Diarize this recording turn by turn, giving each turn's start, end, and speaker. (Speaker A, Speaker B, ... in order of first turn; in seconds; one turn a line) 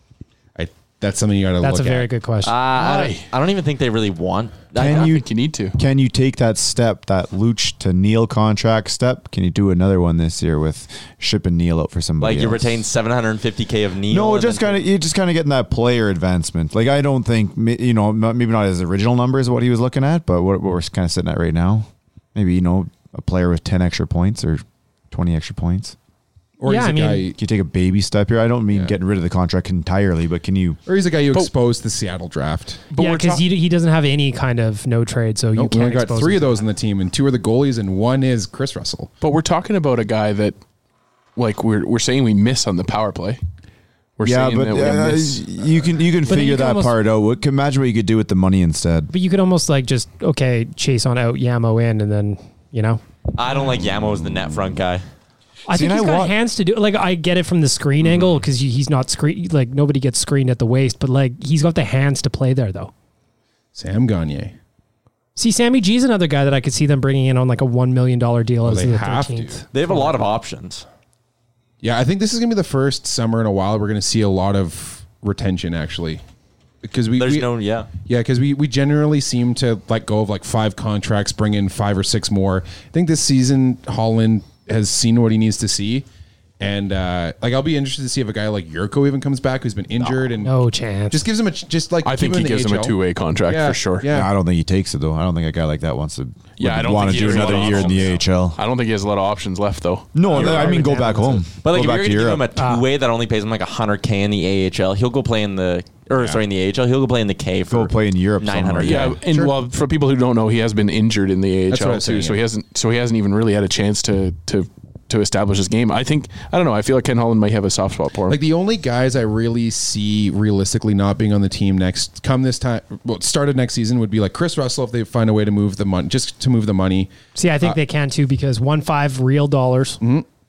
Speaker A: 0.6-2.1
Speaker B: 1.6-3.1
Speaker C: 2.4-5.2
Speaker D: 2.8-3.2
Speaker E: 4.7-12.8
Speaker D: 4.8-5.8
Speaker C: 12.2-14.8
Speaker E: 14.1-25.9
Speaker A: 26.6-27.4
Speaker B: 26.6-27.3
Speaker E: 27.4-30.8
Speaker A: 30.9-32.9
Speaker D: 32.9-33.5
Speaker B: 33.0-36.6
Speaker A: 35.5-39.1
Speaker D: 39.2-40.6
Speaker D: 41.4-43.4
Speaker D: 44.2-45.5
Speaker E: 44.2-49.1
Speaker B: 46.2-46.9
Speaker B: 49.1-53.0
Speaker C: 53.3-55.0
Speaker A: 53.5-54.7
Speaker B: 55.7-62.9
Speaker E: 55.7-56.3
Speaker A: 63.7-64.5
Speaker B: 65.3-70.2
Speaker A: 68.6-69.6
Speaker C: 69.7-70.8
Speaker A: 71.8-76.2
Speaker A: 76.8-77.5
Speaker C: 77.2-77.9
Speaker A: 78.0-86.0
Speaker A: 86.6-94.3
Speaker B: 90.4-91.2
Speaker D: 92.0-94.1
Speaker E: 94.1-98.6
Speaker D: 96.6-100.2
Speaker C: 97.0-98.2
Speaker E: 100.1-102.5
Speaker B: 100.3-101.4
Speaker C: 100.3-100.7
Speaker C: 101.6-109.1
Speaker B: 102.5-102.8
Speaker A: 106.1-106.4
Speaker E: 107.7-109.2
Speaker D: 108.8-118.4
Speaker A: 109.3-109.5
Speaker A: 111.7-112.4
Speaker A: 118.3-127.8
Speaker B: 127.3-130.0
Speaker A: 130.0-130.2